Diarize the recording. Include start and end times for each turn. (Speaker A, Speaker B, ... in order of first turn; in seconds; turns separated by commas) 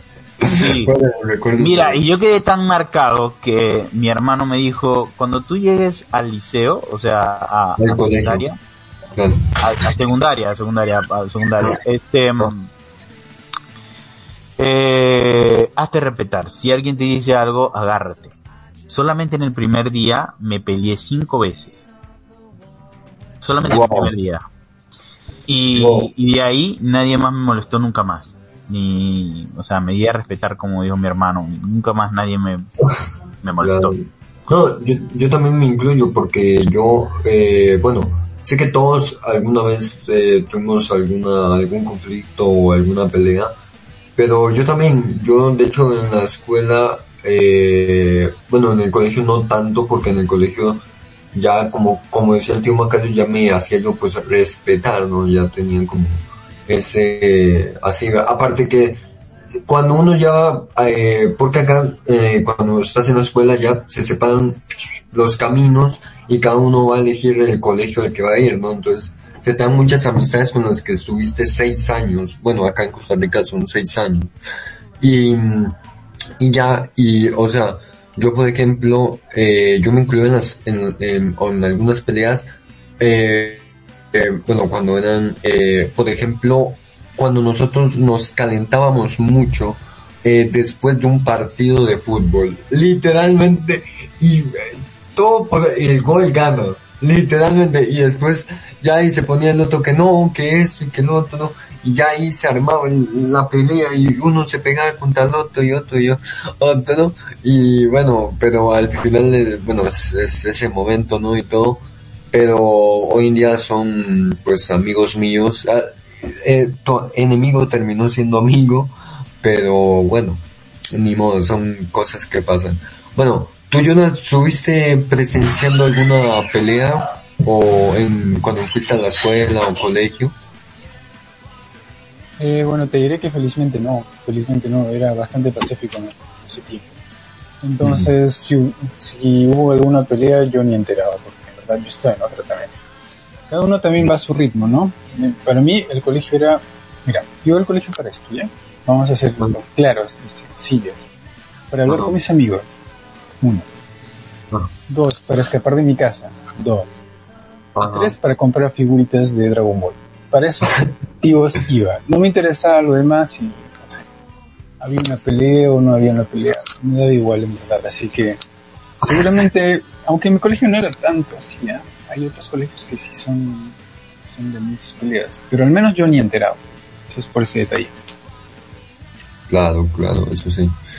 Speaker A: 0.4-2.0, Speaker B: 0.5-0.9, Speaker B: 1.6-8.6, Speaker A: 7.8-8.4, Speaker A: 9.2-9.5, Speaker B: 9.6-12.7, Speaker B: 14.6-18.3, Speaker B: 18.9-21.7, Speaker B: 23.4-24.4, Speaker A: 23.6-24.1, Speaker B: 25.5-32.7, Speaker A: 25.7-26.1, Speaker B: 33.4-33.9, Speaker A: 33.6-43.5, Speaker A: 44.2-59.0, Speaker A: 59.7-74.3, Speaker A: 75.0-75.8, Speaker A: 76.4-82.5, Speaker A: 83.0-130.3, Speaker C: 132.4-136.9, Speaker C: 137.6-142.8, Speaker A: 137.8-138.1, Speaker C: 143.5-151.1, Speaker C: 151.7-152.8, Speaker A: 151.9-152.2, Speaker C: 154.9-157.0, Speaker A: 157.7-158.2, Speaker C: 157.8-164.0, Speaker C: 164.8-168.4, Speaker C: 169.0-173.7, Speaker C: 174.2-177.9, Speaker A: 179.5-180.8